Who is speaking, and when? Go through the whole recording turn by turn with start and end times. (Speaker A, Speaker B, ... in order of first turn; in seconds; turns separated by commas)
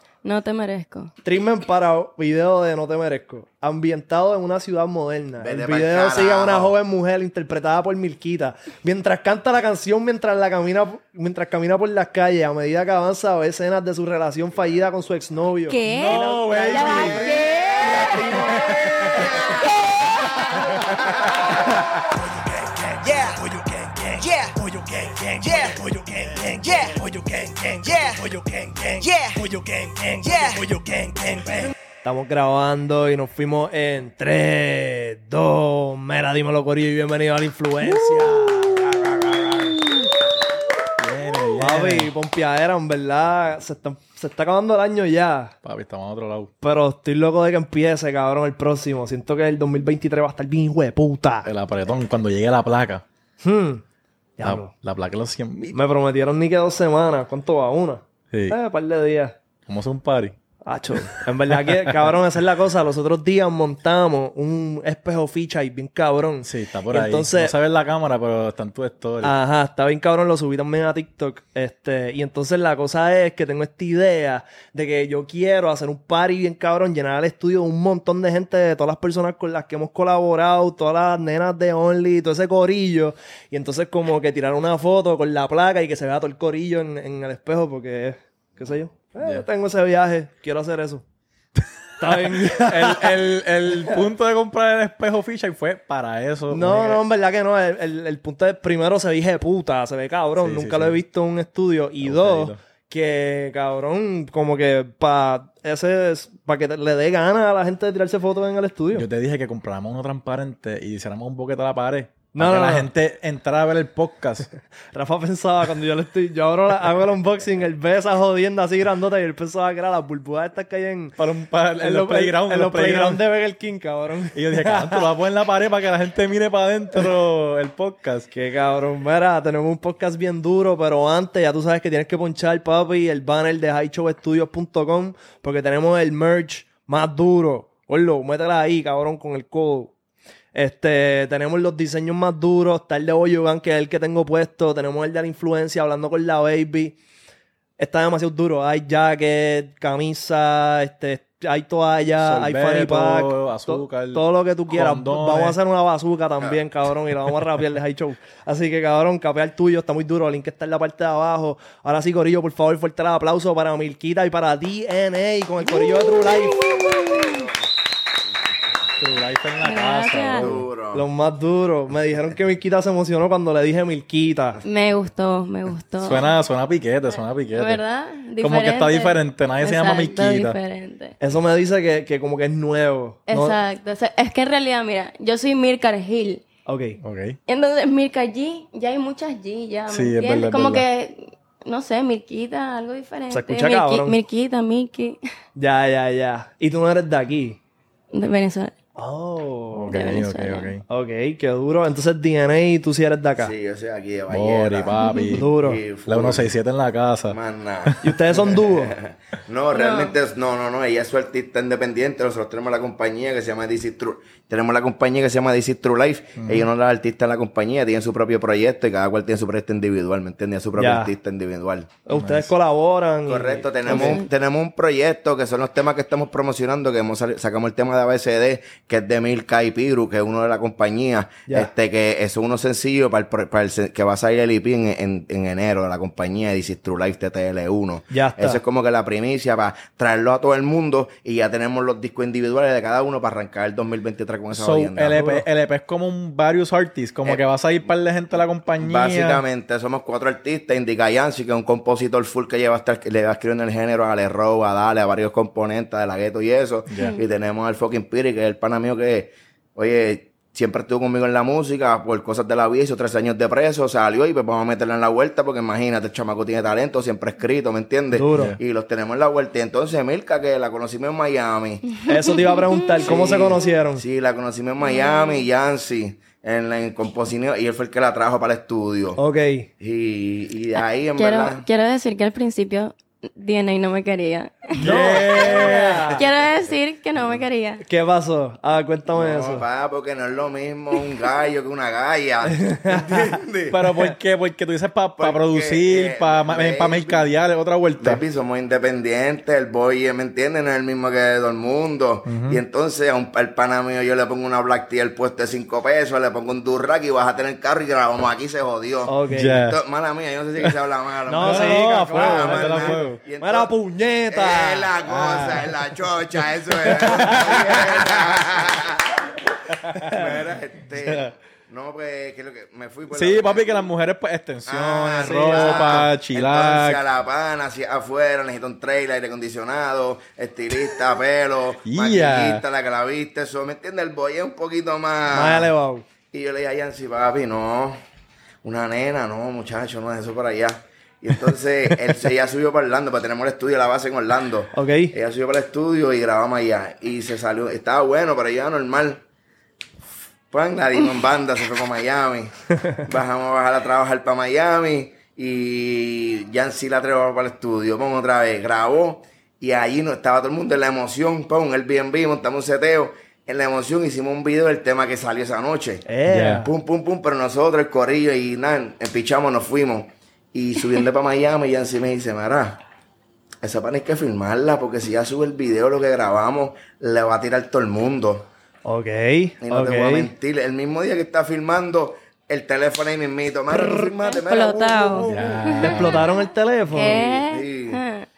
Speaker A: 0.2-1.1, Speaker B: 1.2-19.3, Speaker C: 5.4-6.7, Speaker A: 15.7-18.4, Speaker D: 15.8-17.4, Speaker D: 18.2-19.4, Speaker E: 19.8-20.3, Speaker A: 20.2-20.5, Speaker E: 22.9-31.7, Speaker B: 32.0-40.0, Speaker D: 38.1-38.6, Speaker D: 41.0-42.1, Speaker B: 41.6-45.5, Speaker D: 45.6-46.5, Speaker B: 46.6-51.5, Speaker D: 51.4-53.0, Speaker B: 53.4-53.8, Speaker B: 54.4-54.7, Speaker D: 54.4-55.7, Speaker B: 55.7-59.3, Speaker D: 58.3-58.6, Speaker D: 59.7-60.4, Speaker B: 60.6-67.5, Speaker D: 61.6-62.1, Speaker D: 66.4-69.3, Speaker B: 69.2-91.0, Speaker D: 89.2-89.5, Speaker B: 92.0-93.2, Speaker D: 92.1-97.0, Speaker B: 96.5-109.1, Speaker D: 100.4-101.0, Speaker D: 102.0-102.6, Speaker D: 108.9-114.5, Speaker B: 112.3-112.9, Speaker B: 114.9-121.2, Speaker D: 121.2-123.2, Speaker B: 121.8-125.0, Speaker D: 124.3-128.3, Speaker B: 128.3-139.9, Speaker B: 140.5-147.0, Speaker B: 147.8-166.8, Speaker D: 152.2-155.6, Speaker A: 165.6-167.5, Speaker C: 167.2-167.5, Speaker D: 169.0-170.6, Speaker A: 169.6-170.5, Speaker C: 170.4-171.0, Speaker B: 170.9-174.6, Speaker A: 174.6-176.3, Speaker D: 176.0-177.8, Speaker A: 177.5-181.1, Speaker D: 178.4-180.6, Speaker B: 181.2-183.6, Speaker A: 183.3-186.4, Speaker B: 186.7-187.0, Speaker D: 187.0-187.4, Speaker A: 187.5-195.2, Speaker D: 189.9-190.8, Speaker B: 193.3-194.2, Speaker B: 195.6-197.6, Speaker A: 198.1-198.7, Speaker B: 198.9-200.0, Speaker D: 199.7-200.8, Speaker A: 199.9-200.7, Speaker B: 200.9-203.5, Speaker C: 203.4-205.0, Speaker D: 204.3-205.5, Speaker A: 205.0-205.4, Speaker B: 205.3-205.8, Speaker C: 205.5-206.5, Speaker D: 206.1-208.0, Speaker C: 207.3-208.0, Speaker B: 208.0-209.0, Speaker C: 208.7-221.9, Speaker A: 209.7-210.2, Speaker D: 216.4-216.7, Speaker B: 220.8-221.1, Speaker B: 222.0-224.2, Speaker D: 222.1-222.5, Speaker C: 223.3-245.2, Speaker A: 223.8-224.3, Speaker B: 238.1-238.6, Speaker D: 244.5-249.4, Speaker B: 245.1-245.4, Speaker C: 248.8-272.0, Speaker D: 256.9-257.1, Speaker A: 256.9-257.2, Speaker B: 268.1-268.6, Speaker B: 272.0-274.0, Speaker A: 272.2-273.0, Speaker C: 273.0-279.2, Speaker A: 274.8-275.5, Speaker B: 279.2-279.7, Speaker C: 279.8-281.6, Speaker A: 280.8-287.8, Speaker D: 284.7-286.2, Speaker B: 284.8-286.2, Speaker B: 287.8-289.6, Speaker C: 289.1-293.8, Speaker B: 292.5-293.3, Speaker D: 293.7-298.2, Speaker C: 295.2-297.2, Speaker C: 298.0-313.7, Speaker D: 302.2-302.6, Speaker B: 309.1-309.6, Speaker D: 309.3-309.8, Speaker B: 311.3-315.7, Speaker D: 311.4-313.2, Speaker C: 314.3-323.8, Speaker D: 316.9-318.0, Speaker B: 317.3-317.5, Speaker D: 319.9-320.2, Speaker D: 321.0-321.3, Speaker D: 323.1-327.0, Speaker C: 324.6-335.7, Speaker B: 325.2-326.1, Speaker D: 331.8-332.6, Speaker B: 335.3-336.1, Speaker C: 336.3-338.0, Speaker C: 338.6-349.2, Speaker B: 344.7-345.1, Speaker C: 350.5-366.1, Speaker B: 366.1-366.7, Speaker D: 366.3-366.7, Speaker C: 366.6-372.8, Speaker C: 373.6-378.5, Speaker B: 378.8-380.3, Speaker C: 379.6-385.6, Speaker A: 383.7-388.3, Speaker D: 385.1-386.2, Speaker B: 385.8-387.2, Speaker C: 386.9-388.0